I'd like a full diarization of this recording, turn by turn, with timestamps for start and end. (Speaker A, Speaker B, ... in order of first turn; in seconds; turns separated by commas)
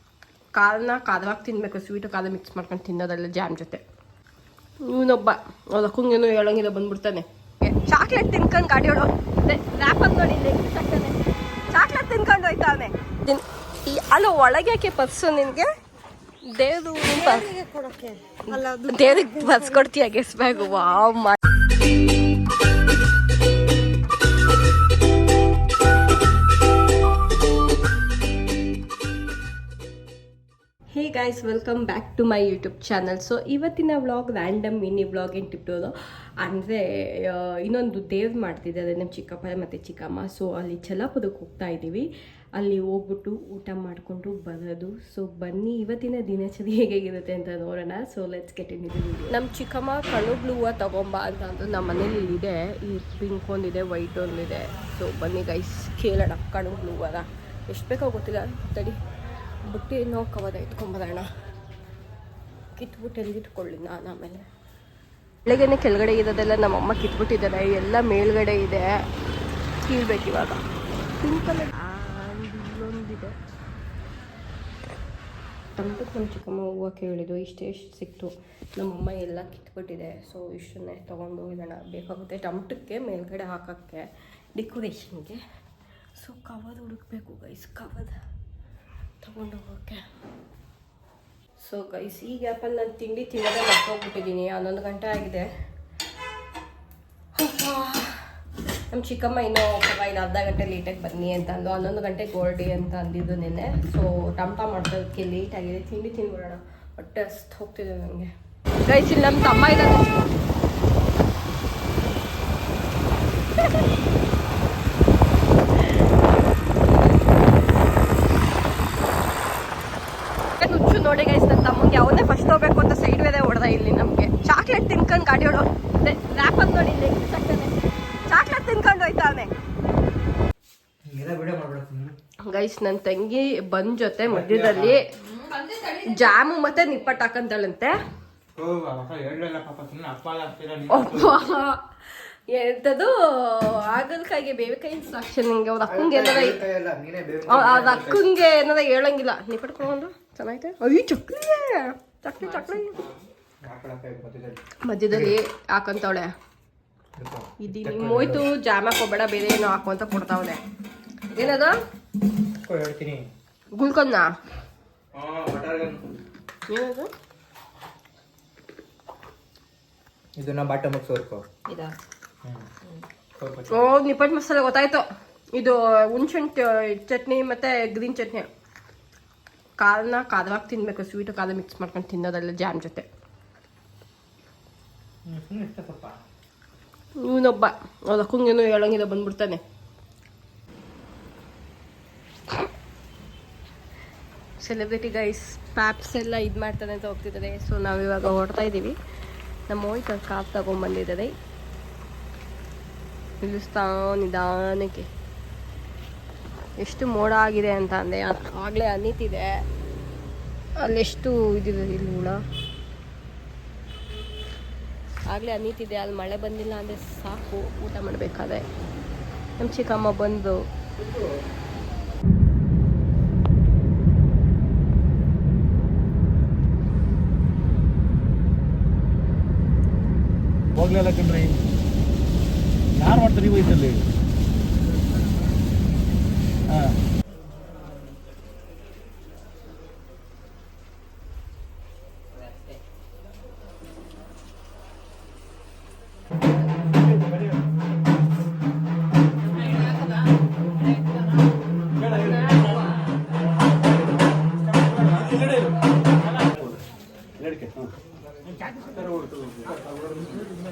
Speaker A: 0.5-3.8, Speaker A: 4.8-15.7, Speaker A: 16.4-17.6, Speaker B: 17.3-19.6, Speaker A: 18.5-21.4, Speaker A: 30.9-59.0, Speaker A: 59.6-61.3, Speaker A: 62.7-64.5, Speaker A: 65.4-69.0, Speaker A: 69.8-70.6, Speaker A: 71.2-73.4, Speaker A: 75.8-85.4, Speaker A: 86.2-88.2, Speaker A: 89.2-90.0, Speaker A: 91.6-95.5, Speaker A: 97.3-98.3, Speaker A: 98.9-108.3, Speaker A: 108.8-110.3, Speaker A: 120.6-127.8, Speaker A: 128.3-129.5, Speaker C: 131.1-132.2, Speaker A: 132.4-137.9, Speaker C: 134.3-135.0, Speaker C: 138.6-141.4, Speaker A: 140.9-146.7, Speaker C: 145.8-148.3, Speaker A: 147.4-153.0, Speaker C: 153.6-155.4, Speaker A: 154.8-156.3, Speaker C: 157.2-158.5, Speaker A: 157.6-160.6, Speaker A: 161.3-161.8, Speaker C: 162.6-163.3, Speaker A: 163.7-164.3, Speaker C: 165.1-166.0, Speaker A: 166.7-167.1, Speaker C: 170.3-171.4, Speaker C: 173.4-173.9, Speaker A: 173.7-178.5, Speaker A: 179.8-183.1, Speaker C: 185.2-186.2, Speaker A: 187.2-189.6, Speaker A: 194.6-199.0, Speaker A: 199.7-201.3, Speaker A: 203.4-205.1, Speaker A: 206.8-209.6, Speaker A: 210.8-212.4, Speaker A: 215.3-218.6, Speaker A: 219.6-220.6, Speaker D: 230.8-231.6, Speaker D: 232.9-234.0, Speaker D: 236.7-236.9, Speaker D: 252.0-252.7, Speaker D: 255.0-255.7, Speaker D: 256.4-256.8, Speaker D: 257.4-257.9, Speaker C: 258.9-259.7